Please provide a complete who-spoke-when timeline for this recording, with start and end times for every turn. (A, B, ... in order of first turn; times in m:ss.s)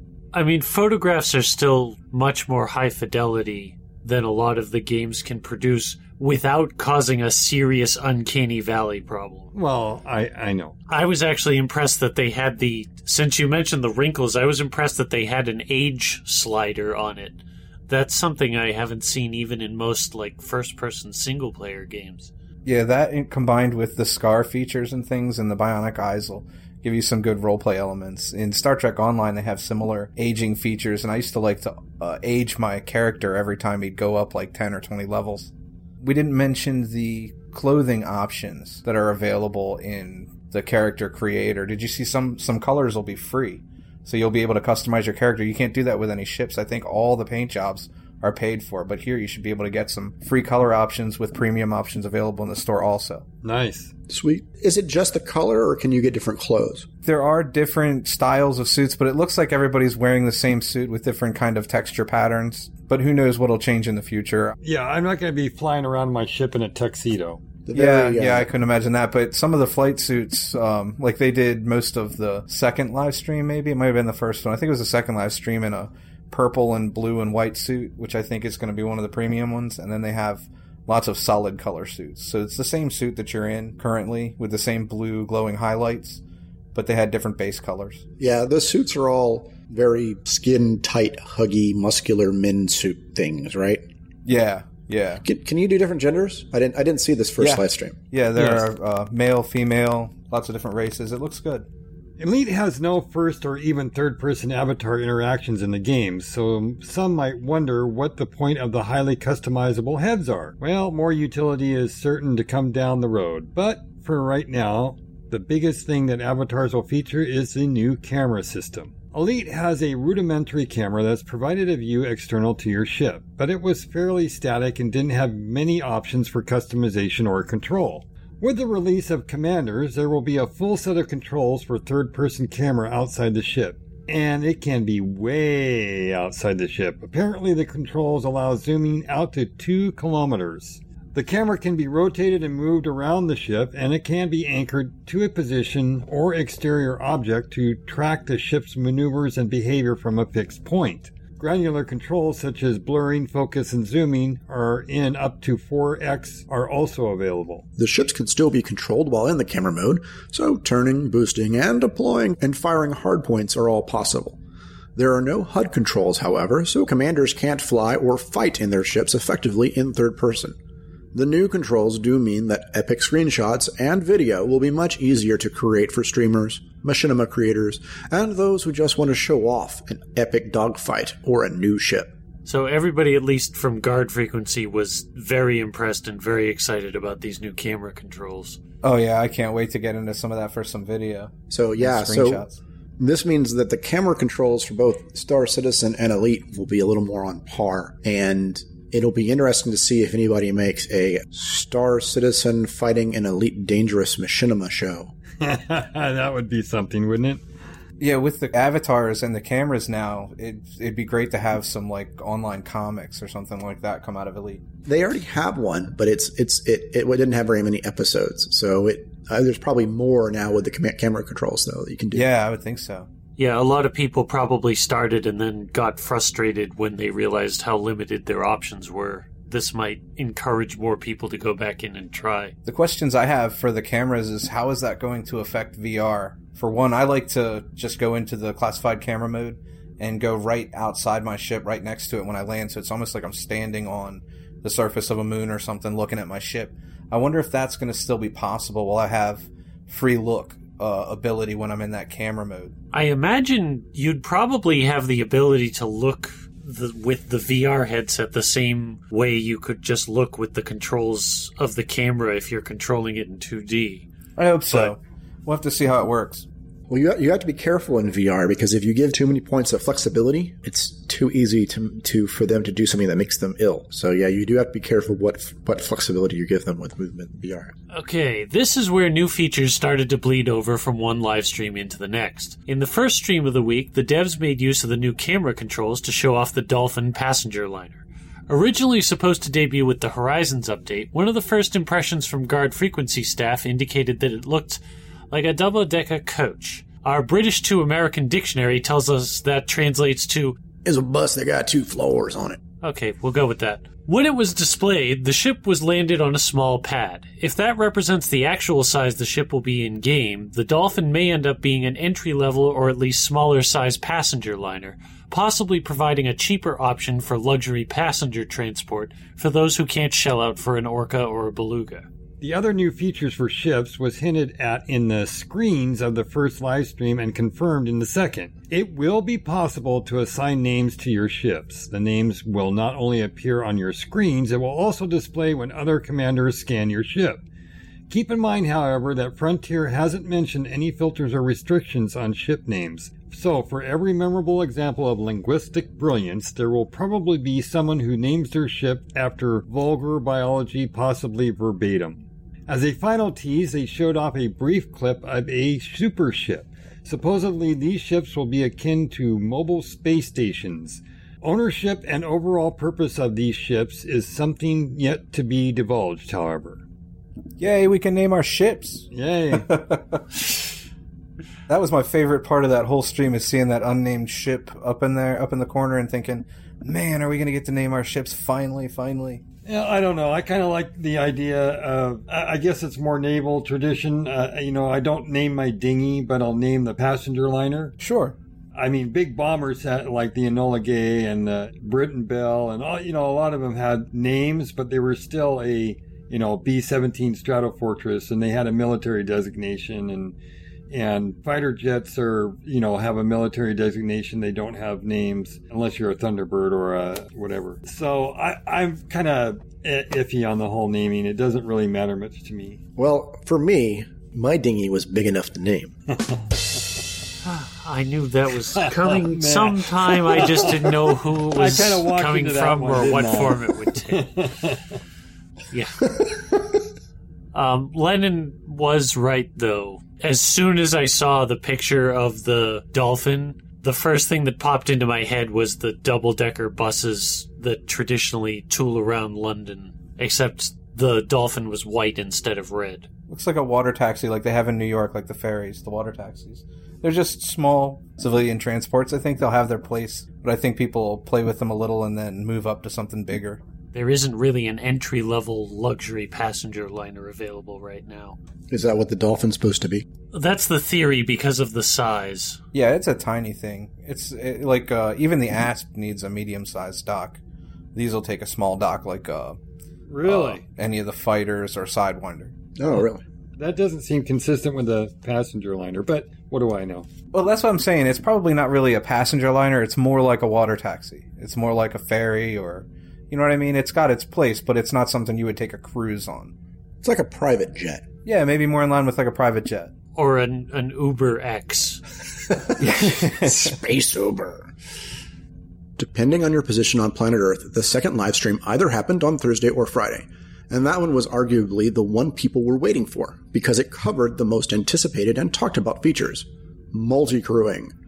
0:00.3-0:09.5 A
0:09.5-0:10.8 B
0:10.9-0:22.3 A
0:22.6-0:53.2 C
0:53.4-0:53.9 B
0:54.1-0:56.9 D
0:57.0-1:04.6 C
1:04.6-1:07.4 B
1:07.7-1:08.5 D
1:07.7-1:26.2 C
1:26.7-1:28.0 C
1:28.2-1:33.8 D
1:34.2-1:35.2 C
1:35.2-1:38.0 D
1:37.4-1:41.7 C
1:38.4-1:38.7 B
1:42.2-2:37.6 B
2:37.8-2:44.4 D
2:45.0-2:50.6 D
2:51.1-3:02.1 D
3:02.4-3:08.6 A
3:08.8-3:12.6 C
3:11.5-3:12.5 D
3:13.0-3:25.1 D
3:25.4-3:27.4 B
3:28.0-3:34.6 C
3:34.8-3:42.3 D
3:42.1-3:43.1 C
3:43.4-3:52.6 A
3:52.6-4:12.7 C
4:12.9-4:24.1 A
4:24.4-4:26.5 C
4:26.9-4:37.7 D
4:37.9-5:00.6 A
5:00.8-5:02.6 D
5:02.8-5:22.1 A
5:22.4-5:37.4 B
5:38.1-6:06.8 B
6:07.6-6:10.4 C
6:09.1-6:09.7 B
6:11.7-6:19.4 C
6:19.6-6:28.0 B
6:28.0-6:28.4 C
6:28.8-6:40.3 B
6:40.9-6:52.8 B
6:53.0-6:56.0 D
6:57.4-7:04.4 A
6:58.9-7:00.9 B
7:01.6-7:04.8 B
7:05.7-7:06.3 A
7:07.5-7:23.1 A
7:23.3-7:33.6 C
7:33.9-7:38.4 A
7:38.7-7:40.1 D
7:40.3-7:42.6 A
7:42.7-7:47.4 C
7:48.0-7:49.6 C
7:50.1-7:50.6 B
7:50.2-7:52.6 C
7:52.8-7:53.2 D
7:53.6-7:57.1 B
7:57.3-8:06.5 C
8:07.0-8:08.1 D
8:08.2-8:09.9 C
8:10.2-8:12.0 A
8:12.6-8:14.7 D
8:12.8-8:13.7 C
8:16.0-8:27.9 D